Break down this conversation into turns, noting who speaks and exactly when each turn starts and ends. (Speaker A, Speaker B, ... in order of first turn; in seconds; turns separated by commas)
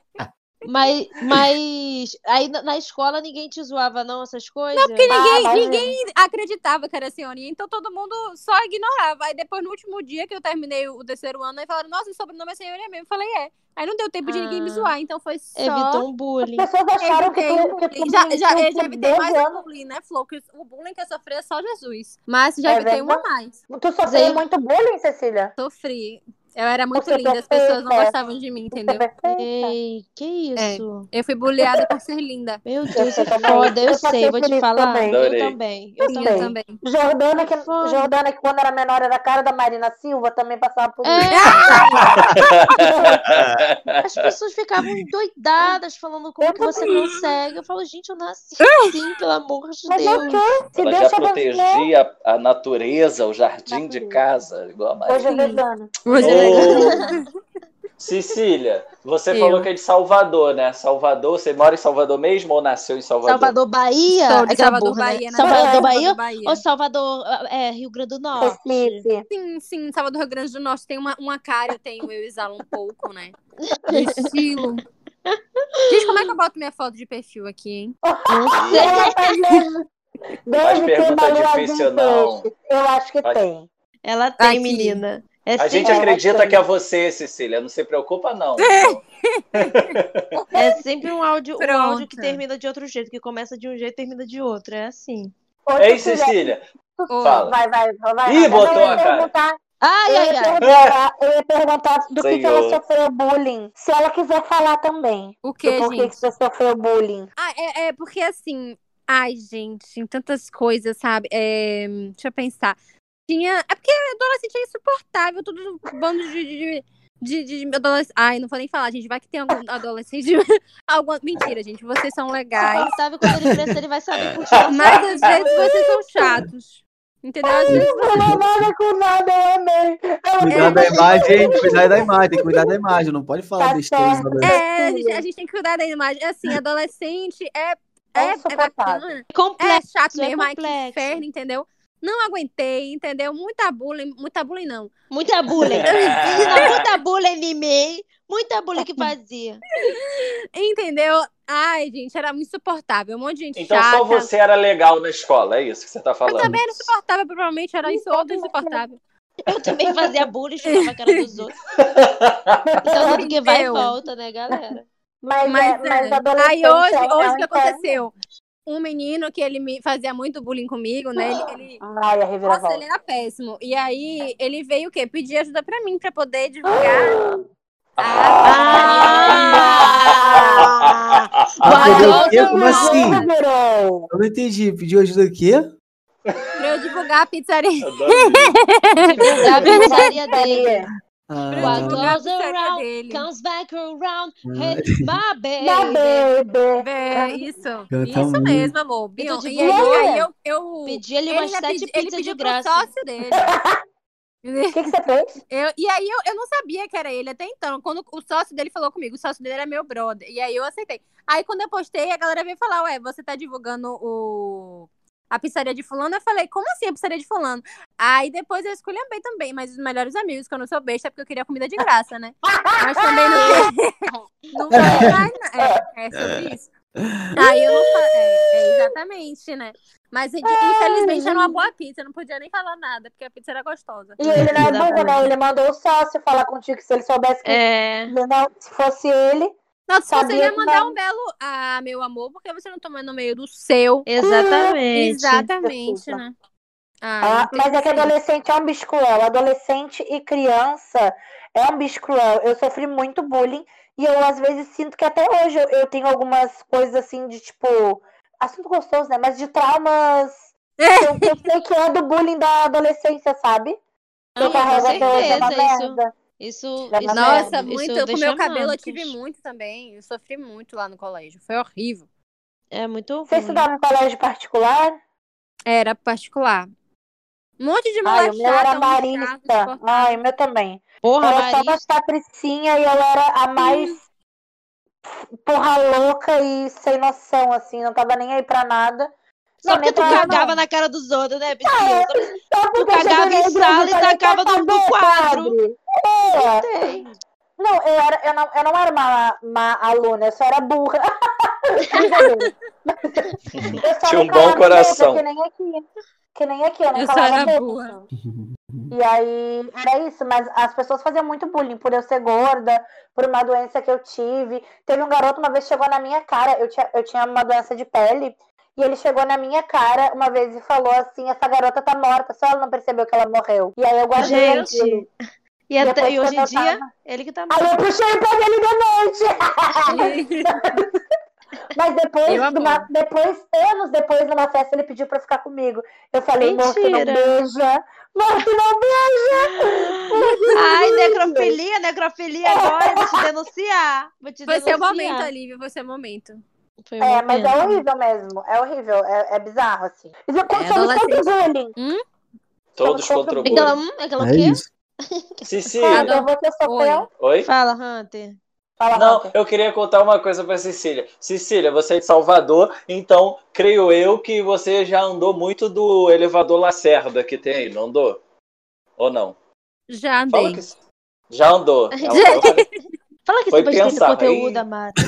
Speaker A: 0.6-5.1, Speaker B: 4.7-16.1, Speaker C: 5.1-6.0, Speaker A: 14.2-14.9, Speaker A: 15.6-16.7, Speaker C: 16.4-19.6, Speaker B: 17.0-23.6, Speaker C: 22.6-25.5, Speaker A: 24.1-24.4, Speaker B: 25.6-29.1, Speaker C: 26.9-28.1, Speaker C: 28.7-29.7, Speaker A: 29.3-31.1, Speaker B: 30.6-32.6, Speaker A: 32.6-36.5, Speaker C: 32.9-35.2, Speaker D: 35.1-35.6, Speaker B: 36.0-36.8, Speaker C: 36.0-41.8, Speaker A: 37.4-38.1, Speaker A: 41.0-42.1, Speaker B: 41.3-42.7, Speaker D: 42.3-44.3, Speaker C: 42.8-43.2, Speaker E: 43.3-43.6, Speaker A: 44.0-50.4, Speaker C: 46.4-47.0, Speaker B: 48.6-49.0, Speaker C: 49.9-51.9, Speaker D: 50.7-55.3, Speaker C: 53.7-54.2, Speaker C: 55.1-55.9, Speaker B: 55.3-57.3, Speaker A: 56.1-57.1, Speaker D: 56.2-57.0, Speaker D: 58.0-63.5, Speaker B: 59.3-59.7, Speaker A: 63.2-69.0, Speaker B: 64.1-66.6, Speaker C: 65.4-65.9, Speaker C: 68.4-69.2, Speaker B: 69.3-73.3, Speaker A: 73.7-74.3, Speaker B: 73.9-74.8, Speaker B: 75.9-78.0, Speaker A: 75.9-76.3, Speaker C: 78.0-79.8, Speaker A: 78.3-79.2, Speaker D: 78.5-79.0, Speaker C: 80.5-83.7, Speaker D: 80.6-82.5, Speaker A: 84.0-86.5, Speaker B: 84.4-85.0, Speaker D: 85.6-89.0, Speaker C: 85.8-86.5, Speaker B: 88.6-90.8, Speaker D: 89.5-90.2, Speaker A: 90.5-95.3, Speaker B: 91.6-92.4, Speaker C: 95.7-107.3, Speaker D: 95.8-96.6, Speaker B: 97.1-97.5, Speaker D: 97.2-97.5, Speaker D: 98.2-99.3, Speaker B: 98.6-99.0, Speaker A: 99.8-100.6, Speaker D: 100.6-100.9, Speaker D: 102.2-102.8, Speaker B: 105.4-106.2, Speaker B: 107.4-112.8, Speaker B: 113.3-122.9, Speaker A: 122.6-125.5, Speaker D: 124.5-125.4, Speaker B: 124.7-128.3, Speaker C: 127.4-132.4, Speaker E: 127.7-128.4, Speaker E: 130.4-134.6, Speaker B: 130.5-131.6, Speaker C: 133.6-135.2, Speaker B: 134.4-144.9, Speaker C: 138.1-139.2, Speaker A: 139.3-141.2, Speaker A: 145.1-149.6, Speaker B: 145.8-146.9, Speaker D: 145.8-146.8, Speaker B: 149.7-154.3, Speaker D: 153.6-156.9, Speaker B: 156.2-159.0, Speaker C: 157.8-158.8, Speaker A: 159.4-161.5, Speaker B: 160.6-161.3, Speaker D: 161.8-162.6, Speaker C: 162.7-163.3, Speaker A: 162.9-164.8, Speaker B: 163.0-164.0, Speaker C: 165.2-167.9, Speaker B: 165.4-168.1, Speaker B: 168.7-171.8, Speaker C: 171.8-172.8, Speaker B: 172.4-177.3, Speaker C: 176.7-177.4, Speaker D: 178.0-180.9, Speaker B: 178.0-179.9, Speaker A: 178.4-182.9, Speaker C: 178.6-180.7, Speaker E: 181.6-183.2, Speaker C: 181.7-184.1, Speaker B: 181.7-183.3, Speaker E: 184.1-185.7, Speaker D: 186.3-187.0, Speaker B: 186.6-190.1, Speaker D: 187.8-188.5, Speaker A: 189.2-190.8, Speaker C: 189.6-190.9, Speaker E: 191.3-192.2, Speaker B: 191.5-193.3, Speaker A: 191.6-196.3, Speaker E: 194.4-195.2, Speaker C: 195.6-197.5, Speaker B: 196.8-203.5, Speaker E: 197.9-198.7, Speaker A: 199.2-200.0, Speaker C: 199.2-200.3, Speaker A: 200.8-202.9, Speaker C: 203.3-203.8, Speaker B: 204.4-204.9, Speaker C: 204.7-205.4, Speaker B: 205.5-226.7, Speaker C: 222.4-223.7, Speaker E: 224.7-225.2, Speaker C: 224.7-225.8, Speaker E: 227.2-227.7, Speaker B: 227.3-234.4, Speaker C: 230.4-231.6, Speaker C: 234.2-239.5, Speaker A: 234.3-235.3, Speaker E: 234.3-234.7, Speaker A: 237.4-238.1, Speaker B: 239.9-244.1, Speaker C: 240.1-241.0, Speaker A: 244.1-245.5, Speaker C: 244.2-244.8, Speaker B: 244.9-246.3, Speaker C: 245.6-246.2, Speaker B: 247.0-248.1, Speaker C: 247.2-263.8, Speaker B: 260.8-261.4, Speaker A: 264.4-269.1, Speaker C: 264.4-266.1, Speaker B: 264.4-265.5, Speaker C: 266.9-267.7, Speaker B: 267.1-272.0, Speaker A: 272.7-273.7, Speaker C: 273.3-275.0, Speaker B: 275.7-276.7, Speaker B: 277.6-280.2, Speaker C: 278.0-284.0, Speaker A: 281.0-281.8, Speaker B: 283.6-283.9, Speaker C: 285.4-289.1, Speaker A: 289.6-295.6, Speaker C: 289.6-290.6, Speaker B: 290.0-290.4, Speaker C: 291.6-296.6, Speaker A: 296.3-297.1, Speaker C: 297.6-303.3, Speaker B: 302.0-302.2, Speaker D: 303.7-305.2, Speaker C: 303.8-308.1, Speaker B: 306.9-307.9, Speaker E: 308.1-308.9, Speaker C: 308.9-325.0, Speaker A: 324.2-325.1, Speaker A: 325.7-327.8, Speaker C: 325.8-326.9, Speaker C: 327.5-330.9, Speaker B: 329.9-330.5, Speaker C: 331.7-341.6, Speaker B: 332.3-332.9, Speaker A: 336.4-337.4, Speaker B: 340.2-340.5, Speaker A: 340.5-345.3, Speaker C: 342.4-343.2, Speaker B: 344.4-346.4, Speaker A: 346.8-347.8, Speaker C: 347.0-351.7, Speaker B: 350.5-352.0, Speaker D: 352.7-353.8, Speaker C: 352.8-353.8, Speaker A: 353.4-355.9, Speaker E: 354.2-354.7, Speaker D: 355.4-356.1, Speaker C: 355.9-357.1, Speaker B: 355.9-357.1, Speaker D: 357.2-357.5, Speaker A: 357.4-358.4, Speaker C: 358.8-359.3, Speaker D: 358.9-368.2, Speaker D: 369.0-369.4, Speaker B: 369.9-370.6, Speaker D: 370.3-370.8, Speaker D: 371.3-372.6, Speaker A: 372.0-372.4, Speaker B: 372.1-372.8, Speaker A: 373.2-375.0, Speaker D: 373.5-374.6